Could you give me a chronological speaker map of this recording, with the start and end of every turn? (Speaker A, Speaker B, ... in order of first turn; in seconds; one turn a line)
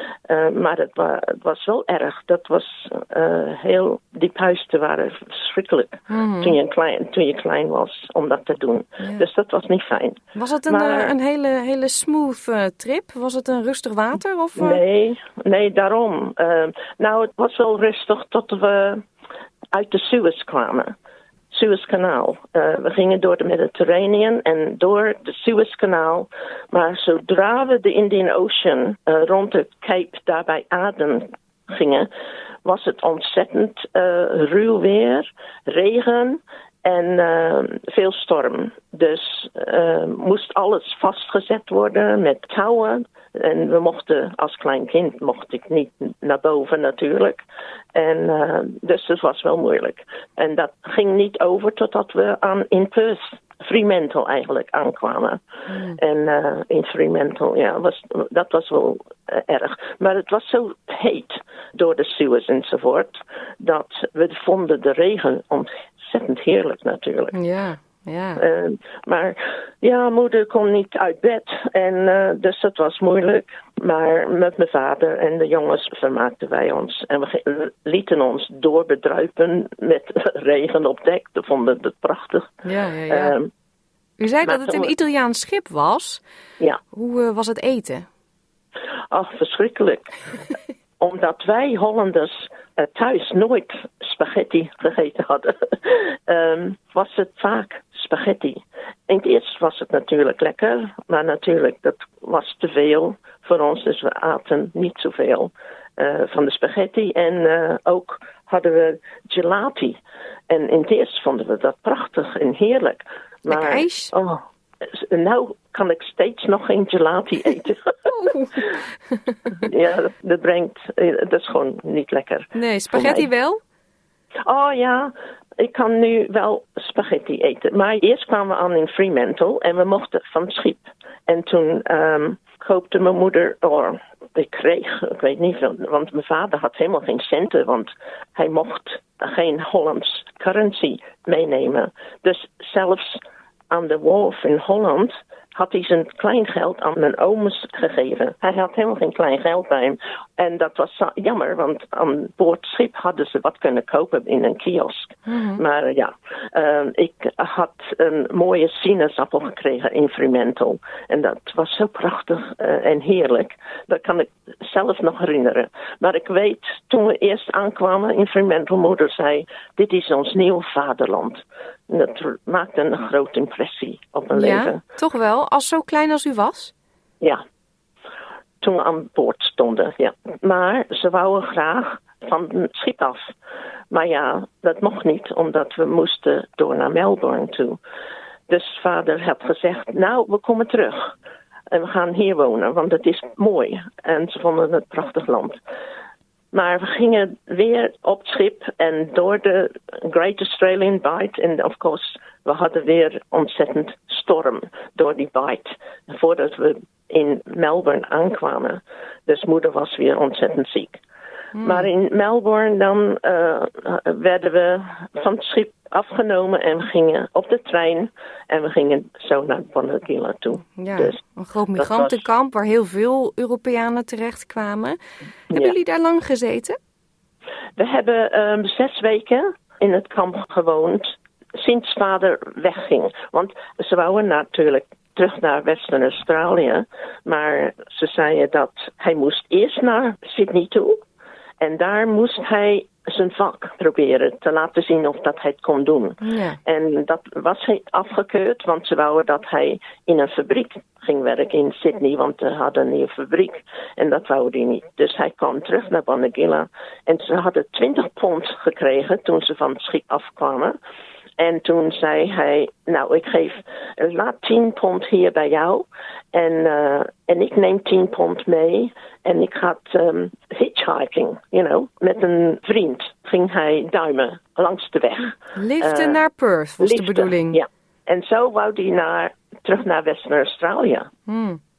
Speaker A: 0.3-11.1
Speaker B: 6.1-6.6
Speaker B: 10.3-14.8
Speaker A: 14.6-19.0
Speaker A: 19.7-20.9
Speaker A: 21.5-32.1
Speaker A: 32.6-55.4
Speaker B: 55.7-56.0
Speaker A: 56.0-67.3
Speaker B: 67.3-68.4
Speaker A: 68.3-82.5
Speaker B: 82.6-83.3
Speaker A: 83.1-83.5
Speaker B: 84.2-86.2
Speaker A: 84.4-84.9
Speaker B: 86.9-88.0
Speaker A: 89.1-90.2
Speaker A: 91.0-110.0
Speaker A: 110.5-118.1
Speaker B: 113.5-114.1
Speaker B: 118.1-119.5
Speaker A: 119.6-123.3
Speaker B: 122.5-123.6
Speaker A: 124.5-174.8
Speaker B: 155.3-155.6
Speaker B: 174.3-176.7
Speaker A: 178.6-183.3
Speaker A: 183.9-187.8
Speaker A: 188.5-191.1
Speaker A: 191.7-195.6
Speaker A: 196.5-211.0
Speaker B: 211.6-211.9
Speaker A: 211.6-221.2
Speaker B: 220.8-225.0
Speaker A: 221.7-222.2
Speaker B: 225.5-226.8
Speaker A: 227.8-241.0
Speaker A: 241.6-260.8
Speaker B: 246.2-246.6
Speaker A: 261.4-276.2
Speaker B: 275.6-277.6
Speaker A: 276.8-281.1
Speaker B: 281.3-281.6